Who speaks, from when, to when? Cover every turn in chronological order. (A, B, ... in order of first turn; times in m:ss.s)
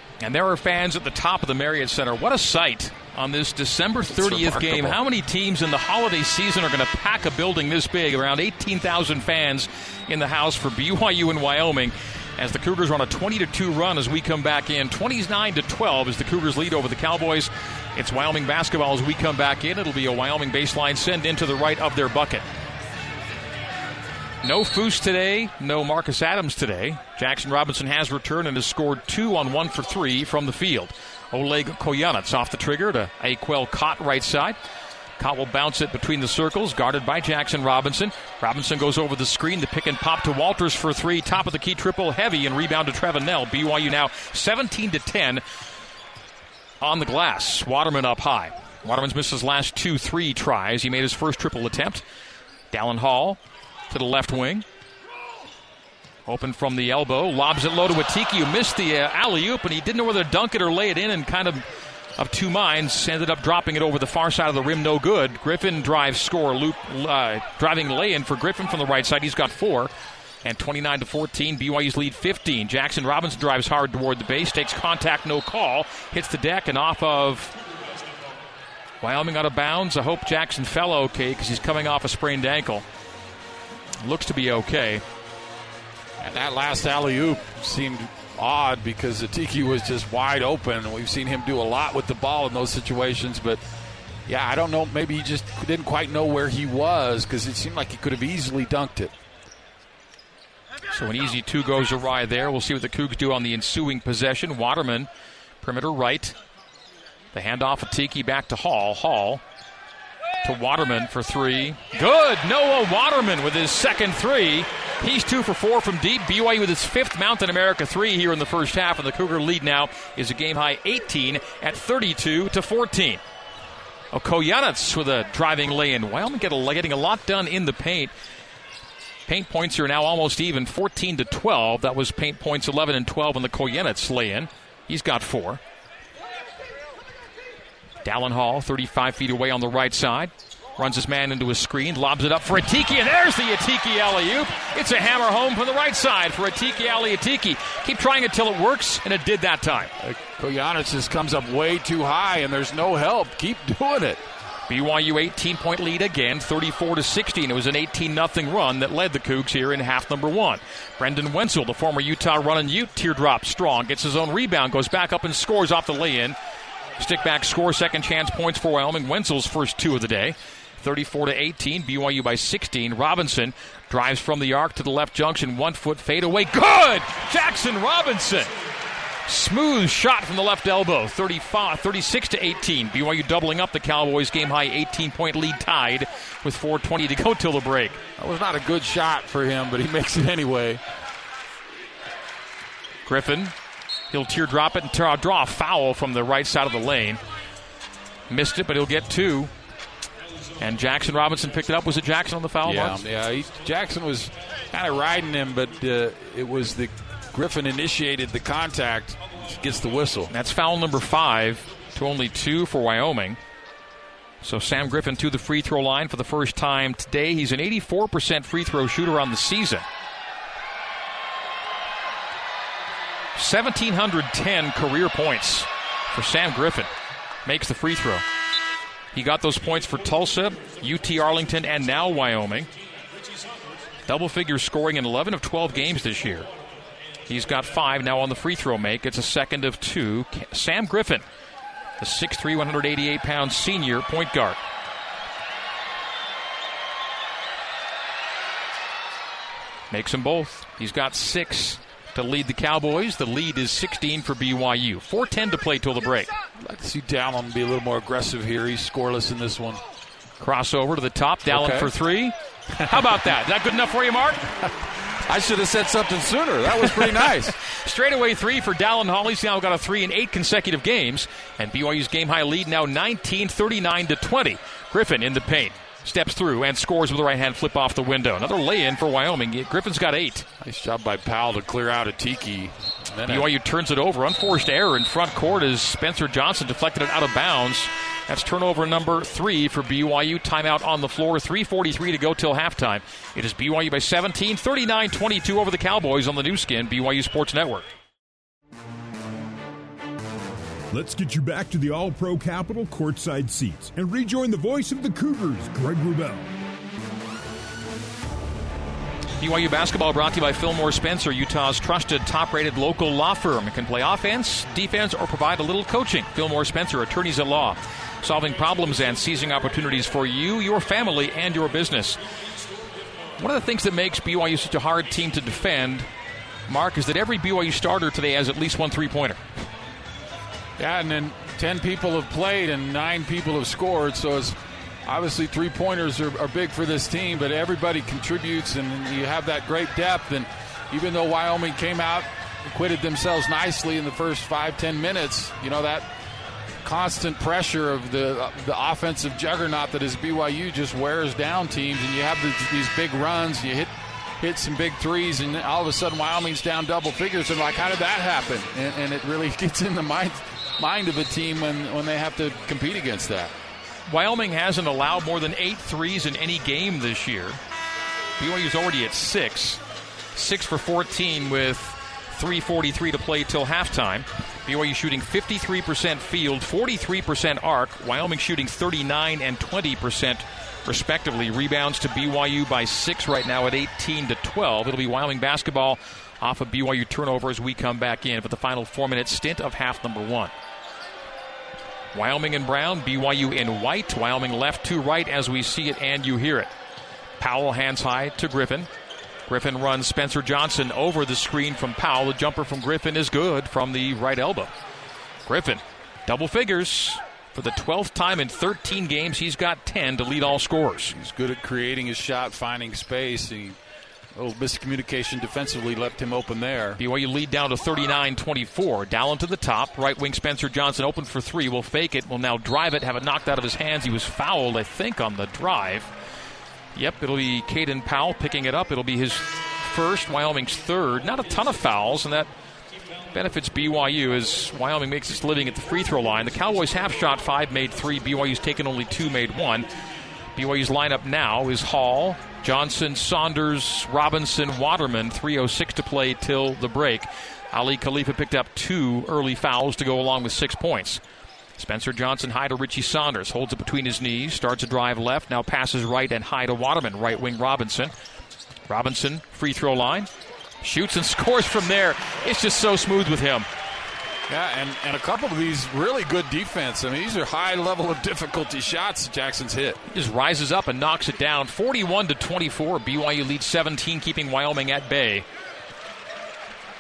0:00.2-0:22.4 A
0:04.2-0:05.0 B
0:24.4-0:34.6 A
0:35.2-0:45.4 A
0:46.8-0:52.0 A
0:52.7-0:54.6 A
0:56.3-1:01.6 A
1:02.2-1:09.9 A
1:10.4-1:17.6 A
1:19.0-1:22.8 A
1:24.0-1:25.0 A
1:26.2-1:33.6 B
1:34.3-1:39.1 B
1:40.9-1:45.1 A
1:45.6-1:46.4 A
1:47.3-1:49.4 A
1:50.4-2:03.2 A
2:04.1-2:08.1 A
2:09.3-2:15.6 A
2:18.0-2:29.9 A
2:30.0-2:34.2 B
2:34.7-2:46.4 A
2:47.0-2:58.5 A
2:59.3-3:08.0 A
3:08.2-3:10.8 B
3:13.1-3:13.5 A
3:14.1-3:17.2 A
3:18.3-3:19.5 A
3:20.6-3:23.0 A
3:22.6-3:30.3 B
3:30.3-3:33.4 A
3:34.4-3:39.9 A
3:43.4-3:46.9 A
3:47.4-3:48.2 A
3:49.1-3:52.7 A
3:54.1-3:56.5 A
3:57.3-4:01.2 A
4:02.0-4:04.6 A
4:09.9-4:16.3 A
4:16.6-4:19.8 B
4:20.4-4:24.5 A
4:21.5-4:21.9 B
4:25.1-4:27.6 B
4:27.6-4:40.5 A
4:40.6-4:43.5 B
4:43.3-4:57.9 A
5:00.9-5:06.5 C
5:09.4-5:22.2 A
5:23.4-5:26.1 A
5:26.7-5:29.4 A
5:30.8-5:46.1 B
5:46.8-6:03.6 B
6:04.1-6:07.6 A
6:08.4-6:09.8 A
6:10.4-6:30.5 A
6:32.1-6:36.7 A
6:37.4-6:38.9 A
6:39.5-6:44.7 A
6:45.5-6:51.2 A
6:51.1-6:53.8 B
6:54.4-6:57.0 B
6:57.0-7:06.1 A
7:07.0-7:12.5 A
7:13.3-7:19.9 A
7:20.6-7:31.2 A
7:31.8-7:38.1 A
7:38.9-7:40.3 A
7:40.8-7:43.7 A
7:44.5-7:50.0 B
7:50.1-7:55.5 A